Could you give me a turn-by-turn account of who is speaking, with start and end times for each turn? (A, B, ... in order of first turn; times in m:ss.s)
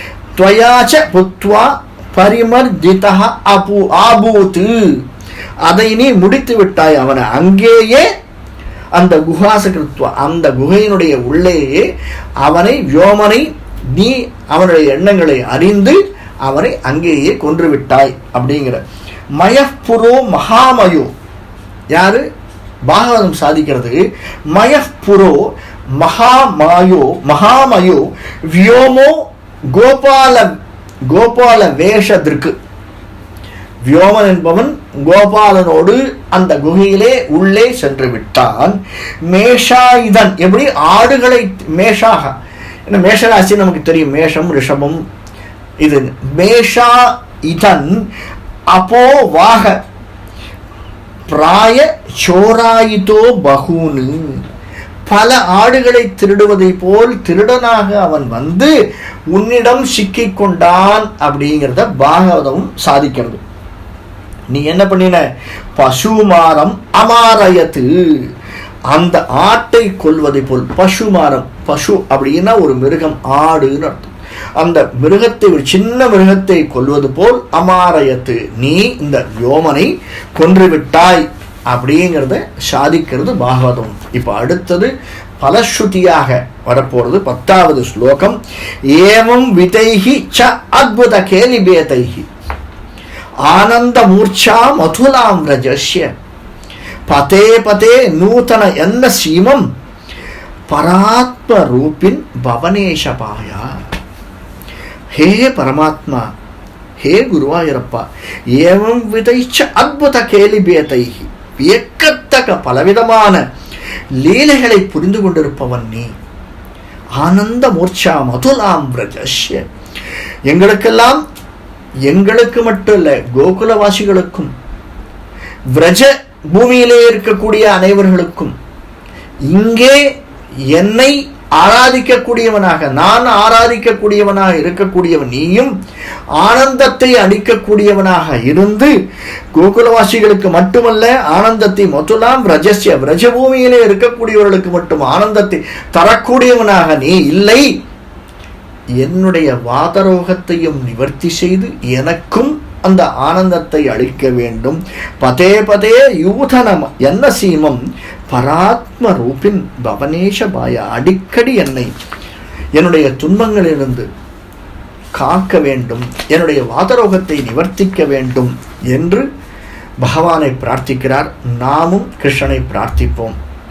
0:00.4-0:05.0 A
0:05.7-0:08.1 A
0:08.9-0:11.9 A
0:12.4-0:18.8 A
0:19.4-0:21.1 A
0:21.9-0:22.2 A
0:22.9-0:24.0 A
0:24.5-0:25.4 A
0:26.0-0:30.5 A
0:31.1-0:32.5 A
0:33.8-0:42.3 A
0:42.9-0:45.0 A
0:45.8-0:48.0 A
0:48.7-0:49.8 A
0:51.3-0:54.4 A
0:55.1-0:58.7 A
0:59.3-1:03.4 A
1:04.5-1:05.2 A
1:05.8-1:07.9 A
1:08.9-1:28.4 A
1:28.9-1:32.3 A
1:33.4-1:36.1 A
1:37.1-1:39.7 A
1:40.7-1:43.8 A
1:45.1-1:46.3 A
1:47.0-1:53.4 A
1:54.2-1:56.1 A
1:57.2-1:59.6 A
2:00.5-2:01.2 A
2:02.1-2:04.5 A
2:05.7-2:08.5 A
2:09.5-2:10.0 A
2:10.7-2:15.7 A
2:16.4-2:18.9 A
2:19.5-2:27.7 A
2:29.0-2:41.9 A
2:42.7-2:44.1 A
2:45.2-2:49.2 A
2:50.0-2:53.4 A